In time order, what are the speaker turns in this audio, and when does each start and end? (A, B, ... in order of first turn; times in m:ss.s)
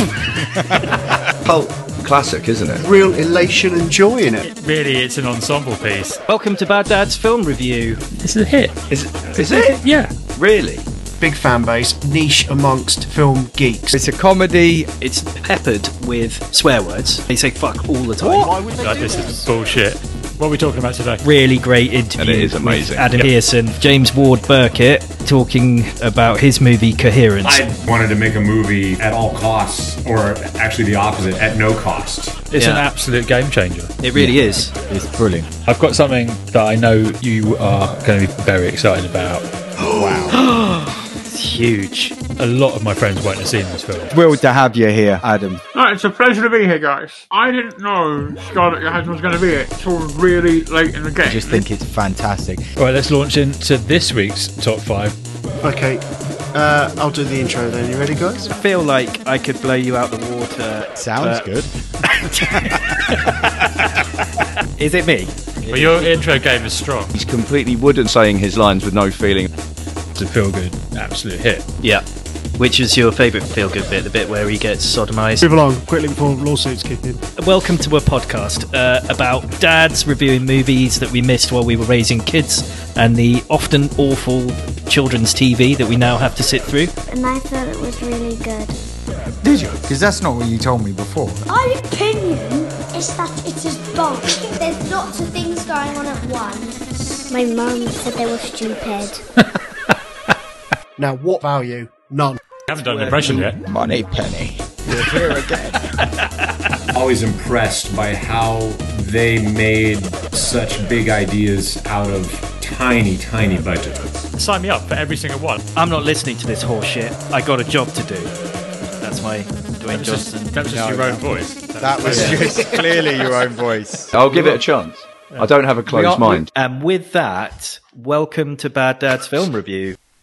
0:00.2-0:00.9 A
0:01.4-0:02.8 B
0:02.7-0:04.5 C
0:04.4-0:06.2 D
0:06.3-0:08.0 E
0:08.2-0:08.8 D
0:08.9-0:09.8 B
0:09.3-0:10.1 D
0:10.4-0:10.8 B
0:11.2-0:13.9 C
0:13.9-0:14.9 A
0:15.0-0:18.6 E
0:18.2-0:19.5 C
0:18.8-0:21.2 D
0:21.2-0:27.6 E
0:22.2-0:23.1 B
0:23.0-0:23.3 D
0:27.4-0:32.4 F
0:32.5-0:33.9 D
0:32.5-0:32.8 E
0:34.0-0:34.7 E
0:34.1-0:35.5 A
0:35.6-0:39.4 D
0:39.8-0:40.4 A
0:40.3-0:42.2 E
0:42.4-0:44.1 D
0:44.1-0:45.6 A
0:45.8-0:51.6 G
0:51.2-0:52.6 A
0:52.8-0:55.2 D
0:55.6-0:58.5 C
0:58.5-1:01.5 E
1:01.0-1:01.7 A
1:02.1-1:03.9 E
1:04.8-1:05.3 E
1:05.7-1:07.1 D
1:07.1-1:09.5 B
1:10.2-1:11.6 D
1:12.6-1:15.5 E
1:15.4-1:17.2 C
1:17.4-1:26.9 E
1:27.1-1:28.8 H
1:29.4-1:31.4 A
1:31.5-1:39.2 H
1:41.0-1:42.4 C
1:42.7-1:43.6 D
1:42.7-1:45.8 A
1:46.9-1:54.3 F
1:54.4-1:55.6 D
1:55.8-1:58.3 E
1:59.0-2:00.5 E
1:59.9-2:02.5 D
2:00.7-2:04.2 A
2:02.0-2:02.4 E
2:02.1-2:02.4 C
2:04.1-2:06.5 B
2:05.9-2:10.0 E